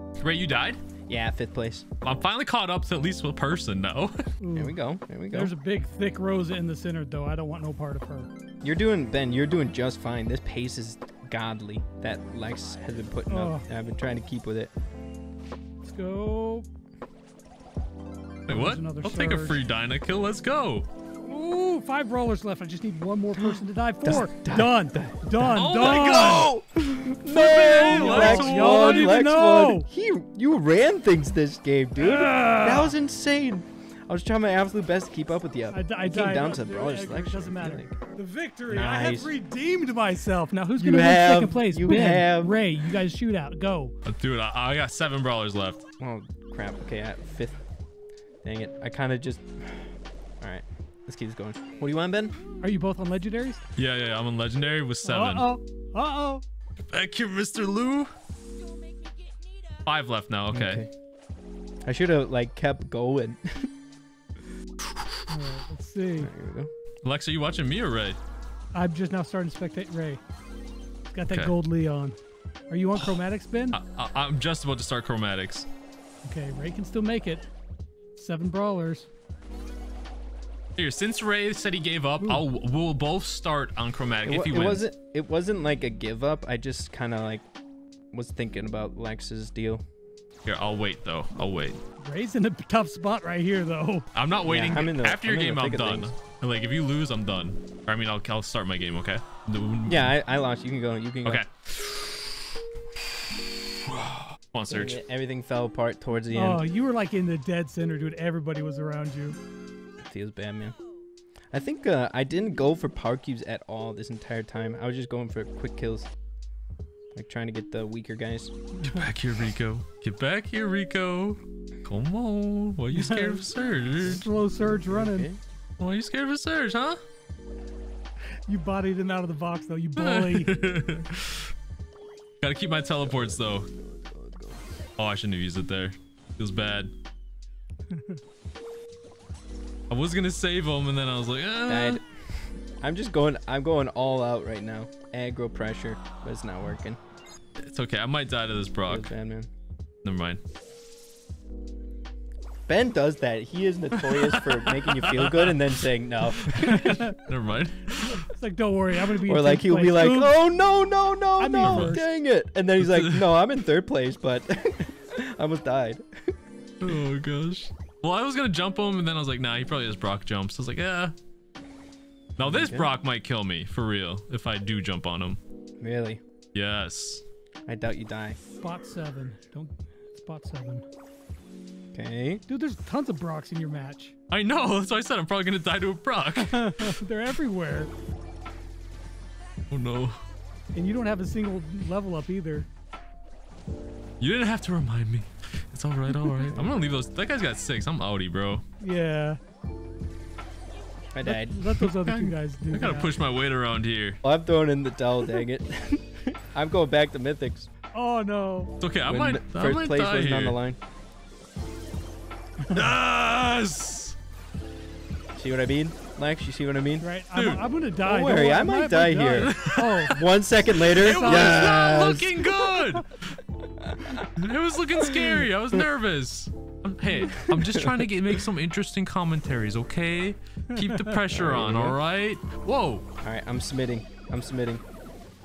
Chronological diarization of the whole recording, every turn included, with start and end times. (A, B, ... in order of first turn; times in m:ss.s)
0:00.2-0:00.8 A
0:01.1-0:01.9 B
0:02.0-0:04.2 A
0:04.4-0:04.8 C
0:04.5-0:05.5 B
0:05.3-0:08.3 C
0:08.6-0:14.7 B
0:13.3-0:13.7 C
0:15.8-0:16.7 C
0:18.5-0:19.6 C
0:18.5-0:20.9 A
0:21.2-0:26.5 C
0:23.4-0:38.0 B
0:25.4-0:26.5 A
0:27.3-0:29.2 A
0:27.8-0:29.9 C
0:32.0-0:32.9 C
0:35.7-0:43.9 C
0:38.7-0:39.3 B
0:40.8-0:42.6 B
0:44.0-0:45.8 A
0:46.0-0:47.6 B
0:48.4-0:52.4 B
0:52.6-0:53.6 C
0:53.8-0:55.5 A
0:55.0-0:56.4 C
0:56.9-0:58.1 A
0:59.9-1:00.8 A
1:00.5-1:00.9 B
1:01.9-1:03.7 B
1:04.8-1:05.2 A
1:05.3-1:06.3 C
1:06.2-1:06.7 B
1:07.0-1:08.2 A
1:08.7-1:10.2 C
1:11.1-1:12.2 C
1:11.3-1:11.6 A
1:12.7-1:13.8 C
1:13.7-1:15.7 A
1:16.2-1:17.4 C
1:18.2-1:19.1 C
1:20.8-1:24.8 A
1:24.2-1:27.4 B
1:28.1-1:29.8 B
1:30.4-1:31.8 A
1:32.0-1:34.1 C
1:34.2-1:40.1 A
1:34.4-1:36.1 B
1:39.9-1:41.4 B
1:41.2-1:42.5 A
1:43.8-1:45.0 A
1:44.7-1:46.6 B
1:46.3-1:49.4 C
1:50.0-1:50.8 B
1:51.5-1:56.1 B
1:57.2-1:58.6 B
1:58.8-2:04.3 A
2:02.9-2:03.5 C
2:04.0-2:05.3 C
2:04.6-2:05.4 B
2:05.8-2:07.0 A
2:08.5-2:10.5 C
2:10.0-2:11.5 A
2:12.4-2:13.7 A
2:13.2-2:14.6 B
2:15.0-2:16.9 A
2:17.9-2:18.2 C
2:19.9-2:22.0 A
2:21.7-2:27.0 B
2:27.6-2:29.1 A
2:28.9-2:29.5 B
2:30.0-2:30.4 A
2:32.7-2:37.1 B
2:34.0-2:35.7 A
2:36.3-2:38.2 A
2:36.6-2:37.2 C
2:38.2-2:40.3 C
2:39.3-2:46.0 B
2:41.4-2:42.1 C
2:41.6-2:42.0 A
2:42.8-2:43.3 A
2:46.8-2:51.1 A
2:52.4-2:52.9 B
2:52.4-2:55.4 A
2:55.8-2:56.2 B
2:56.5-2:57.2 A
2:57.7-2:58.4 B
2:58.6-3:00.8 C
3:01.9-3:02.4 B
3:02.5-3:04.1 C
3:04.3-3:06.9 A
3:06.4-3:07.9 C
3:09.7-3:10.2 A
3:10.7-3:12.7 C
3:14.2-3:18.6 A
3:18.8-3:19.4 C
3:21.1-3:21.6 B
3:21.2-3:23.1 C
3:21.6-3:24.2 A
3:24.2-3:27.7 B
3:27.9-3:28.8 C
3:28.8-3:30.6 A
3:29.1-3:30.8 B
3:32.6-3:32.9 C
3:32.7-3:34.2 A
3:35.4-3:37.1 B
3:37.0-3:40.3 C
3:37.3-3:37.6 A
3:38.0-3:42.7 B
3:39.4-3:43.4 A
3:40.8-3:41.8 C
3:43.8-3:44.2 B
3:44.1-3:53.1 A
3:47.3-3:48.0 B
3:50.7-3:51.2 C
3:51.3-3:52.0 B
3:53.2-3:54.8 B